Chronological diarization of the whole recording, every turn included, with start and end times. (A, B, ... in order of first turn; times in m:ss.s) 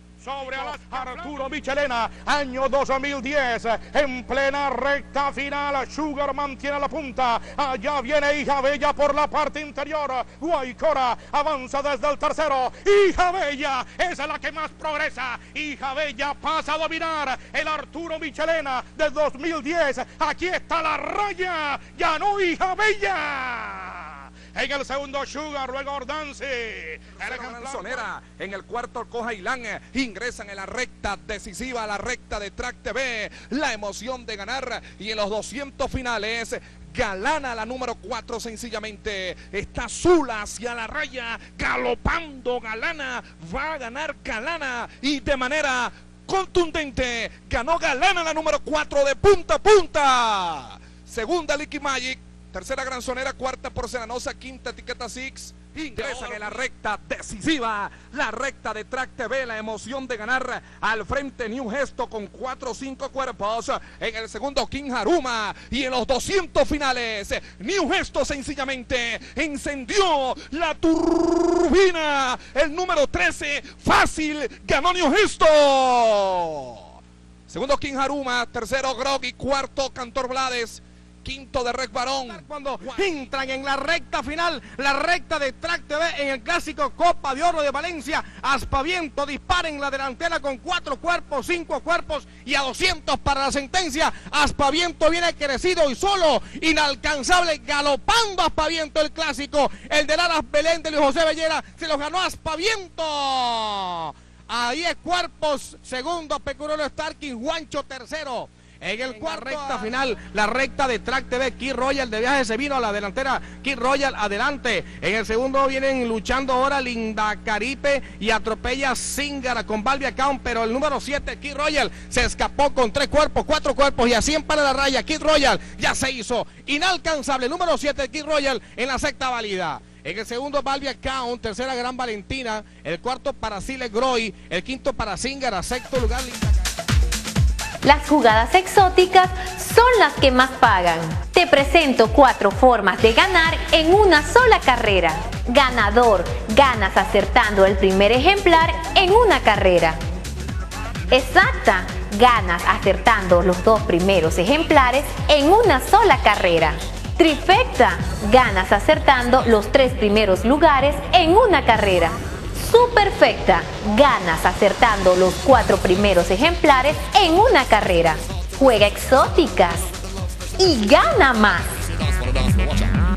0:00.2-0:28.1 A
0:27.1-1:17.0 B
0:55.9-0:56.6 A
1:17.5-1:23.3 B
1:22.2-2:16.6 C
1:49.1-1:49.9 B
2:17.8-2:30.0 D
2:31.1-2:49.9 D
2:50.6-2:51.8 D
2:52.3-2:52.9 B